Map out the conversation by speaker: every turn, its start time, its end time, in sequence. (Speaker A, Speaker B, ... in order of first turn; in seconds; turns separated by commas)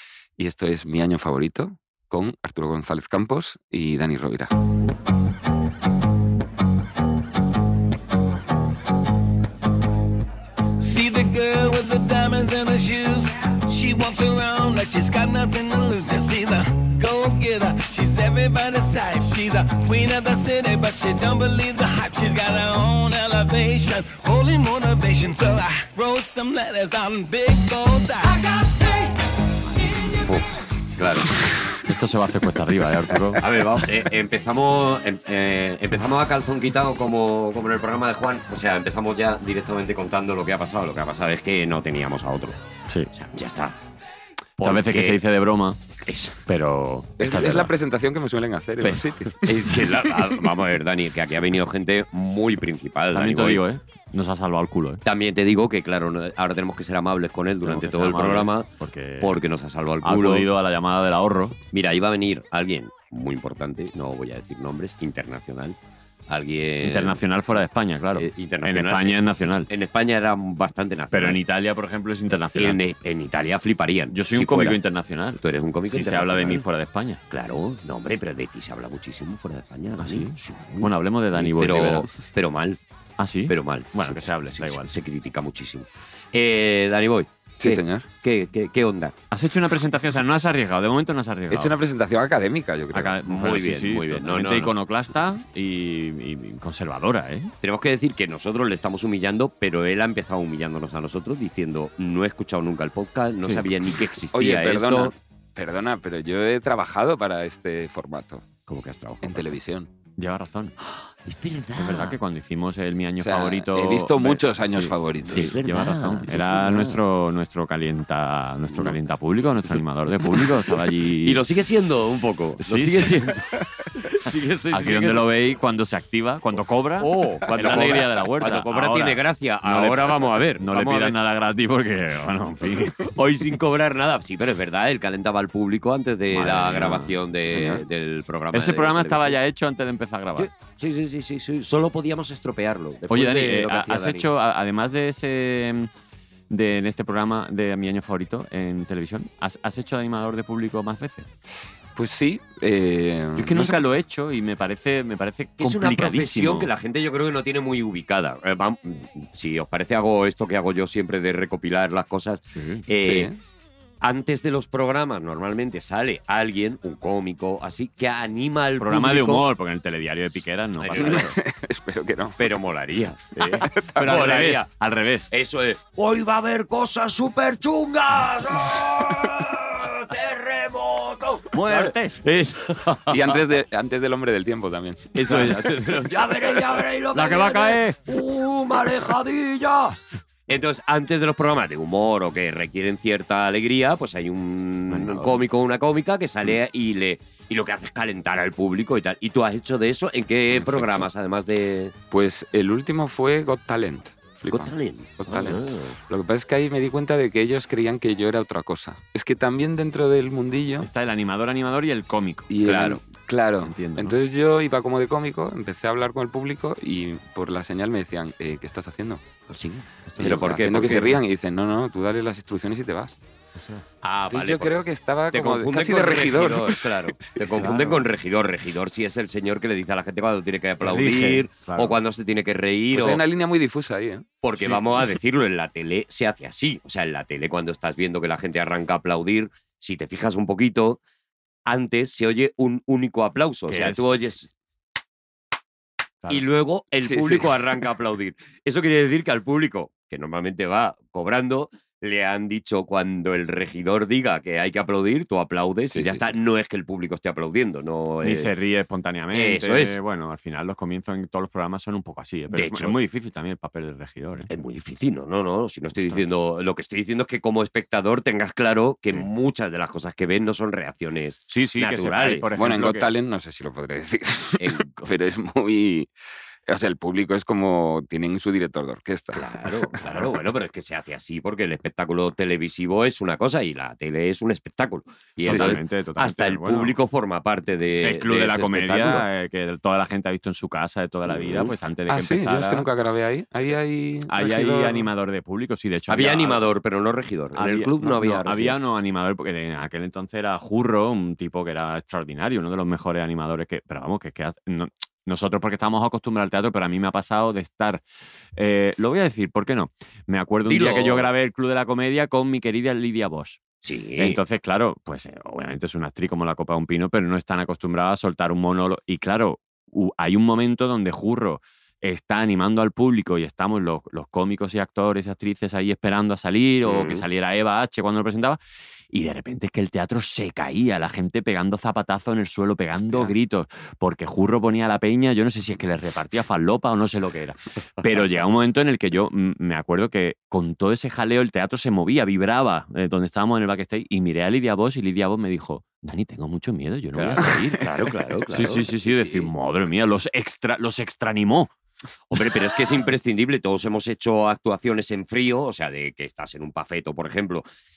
Speaker A: 0.4-4.5, Speaker B: 10.8-29.1, Speaker B: 29.8-30.2, Speaker C: 30.9-31.3, Speaker D: 31.4-33.4, Speaker C: 33.4-42.6, Speaker C: 43.1-43.8, Speaker C: 44.6-45.2, Speaker D: 44.6-45.8, Speaker C: 46.0-46.4, Speaker D: 46.5-47.7, Speaker A: 47.2-49.4, Speaker D: 48.8-49.4, Speaker C: 49.4-53.6, Speaker D: 53.1-55.0, Speaker C: 55.0-58.7, Speaker D: 57.6-59.4, Speaker C: 59.2-60.5, Speaker D: 60.0-61.6, Speaker C: 61.7-65.8, Speaker C: 66.3-67.2, Speaker D: 66.8-69.7, Speaker C: 68.1-69.2, Speaker C: 69.7-71.4, Speaker D: 71.1-72.8, Speaker C: 72.5-74.8, Speaker D: 74.1-77.2, Speaker C: 75.4-76.6, Speaker C: 77.3-82.8, Speaker D: 80.0-82.1, Speaker D: 83.2-84.9, Speaker C: 83.5-89.1, Speaker A: 87.6-88.0, Speaker D: 89.3-91.7, Speaker A: 91.5-93.2, Speaker D: 92.9-97.5, Speaker C: 93.2-94.7, Speaker C: 97.6-105.1, Speaker A: 104.3-108.4, Speaker C: 108.7-109.6, Speaker A: 109.2-109.9, Speaker D: 110.2-110.7, Speaker C: 110.8-112.2, Speaker D: 111.8-121.4, Speaker A: 113.2-115.6, Speaker C: 115.2-117.0, Speaker C: 121.2-125.2, Speaker D: 122.6-123.3, Speaker D: 124.7-133.1, Speaker C: 127.0-131.2, Speaker C: 133.1-139.4, Speaker D: 136.3-137.2, Speaker A: 137.5-137.8, Speaker D: 138.5-140.5, Speaker C: 140.4-144.2, Speaker D: 143.1-145.9, Speaker D: 146.5-151.3, Speaker A: 151.9-153.8, Speaker D: 153.4-156.7, Speaker C: 155.6-163.3, Speaker D: 162.5-162.8, Speaker A: 163.0-163.4, Speaker C: 164.0-169.5, Speaker D: 168.8-171.3, Speaker C: 170.8-171.3, Speaker A: 171.0-172.4, Speaker C: 172.4-174.7, Speaker D: 173.4-175.3, Speaker C: 175.3-183.3, Speaker D: 181.5-182.2, Speaker A: 183.1-185.4, Speaker C: 185.1-201.9, Speaker D: 185.3-185.6, Speaker D: 187.1-188.0, Speaker D: 194.9-195.4, Speaker A: 200.6-201.0, Speaker A: 202.1-210.9, Speaker C: 204.4-206.0, Speaker D: 210.8-212.5, Speaker A: 212.5-219.2, Speaker C: 212.6-213.0, Speaker D: 213.6-214.2, Speaker C: 219.5-221.2, Speaker D: 220.1-220.4, Speaker A: 220.2-223.2, Speaker D: 223.5-223.8, Speaker C: 224.0-224.8, Speaker A: 224.3-227.6, Speaker C: 225.3-233.2, Speaker D: 227.5-228.1, Speaker D: 230.8-231.9, Speaker A: 232.9-234.3, Speaker C: 234.4-241.0, Speaker D: 234.6-235.1, Speaker C: 241.7-244.5, Speaker D: 243.7-244.1, Speaker C: 246.3-258.5, Speaker A: 246.9-247.6, Speaker A: 255.9-256.3, Speaker D: 258.2-264.5, Speaker C: 259.3-260.0, Speaker C: 262.5-262.9, Speaker C: 264.5-272.5, Speaker D: 265.9-266.2, Speaker D: 271.5-273.1, Speaker A: 272.5-276.1, Speaker C: 274.6-275.1, Speaker A: 276.6-279.4, Speaker C: 279.3-289.2, Speaker A: 285.4-285.8, Speaker D: 285.5-287.0, Speaker D: 288.0-292.9, Speaker C: 291.3-291.7, Speaker A: 292.1-295.1, Speaker D: 294.3-296.7, Speaker C: 296.1-298.8, Speaker D: 297.6-308.0, Speaker D: 308.6-313.6, Speaker C: 310.6-311.3, Speaker C: 313.8-314.4, Speaker D: 314.2-328.6, Speaker C: 326.8-327.2, Speaker D: 329.1-347.9, Speaker C: 333.0-333.3, Speaker C: 347.1-349.5, Speaker D: 348.5-351.7, Speaker C: 352.3-357.6